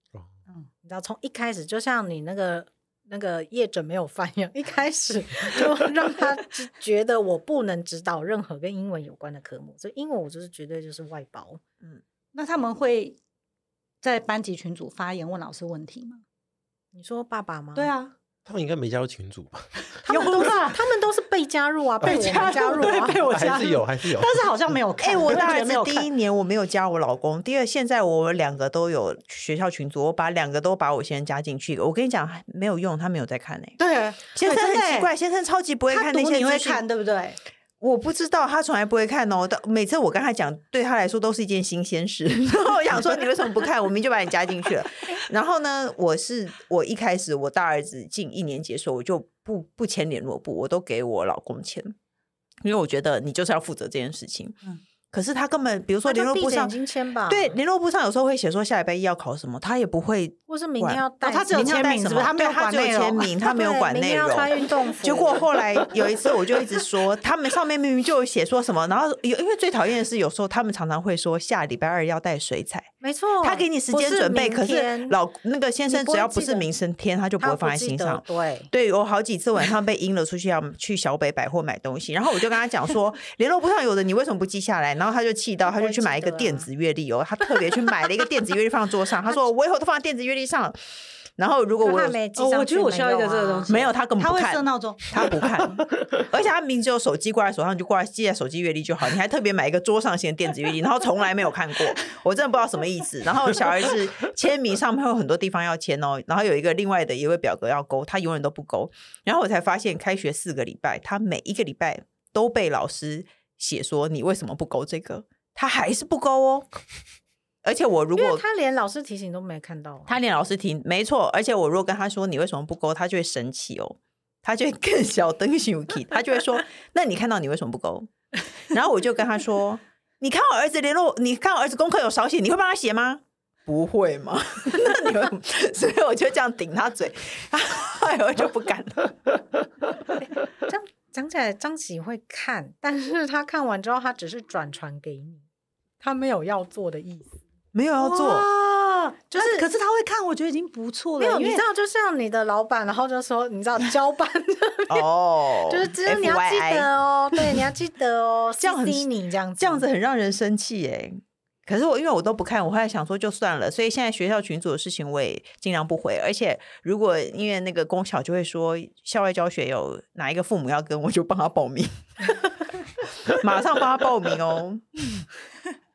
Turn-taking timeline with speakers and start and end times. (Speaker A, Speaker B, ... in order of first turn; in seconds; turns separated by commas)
Speaker A: 0.8-11.6, Speaker B: 12.3-13.2, Speaker B: 14.0-16.2, Speaker A: 16.9-17.9, Speaker B: 17.8-18.1, Speaker C: 18.4-20.3, Speaker A: 20.0-23.2, Speaker B: 20.1-20.8, Speaker C: 22.0-24.6, Speaker B: 22.1-26.1, Speaker D: 25.0-33.8, Speaker B: 33.8-35.1, Speaker D: 34.3-36.8, Speaker B: 35.9-37.4, Speaker D: 37.8-52.0, Speaker D: 52.6-54.6, Speaker D: 55.1-56.8, Speaker A: 56.0-57.6, Speaker D: 57.3-90.8, Speaker A: 60.5-62.3, Speaker B: 61.2-63.3, Speaker A: 63.4-65.5, Speaker A: 73.0-75.2, Speaker A: 75.9-76.7, Speaker A: 77.4-78.7, Speaker A: 85.7-86.7, Speaker D: 91.4-92.2, Speaker A: 91.8-93.9, Speaker B: 92.3-95.7, Speaker D: 93.7-116.7, Speaker D: 117.6-118.4, Speaker A: 118.2-120.2, Speaker D: 120.1-128.1, Speaker D: 128.7-139.4, Speaker A: 140.6-145.5, Speaker A: 146.0-147.4, Speaker D: 147.7-148.5, Speaker B: 148.0-151.6, Speaker A: 149.3-149.7, Speaker A: 151.2-155.1, Speaker D: 154.9-157.6, Speaker A: 155.7-159.9, Speaker D: 158.6-159.1, Speaker D: 159.6-172.4, Speaker D: 173.3-175.2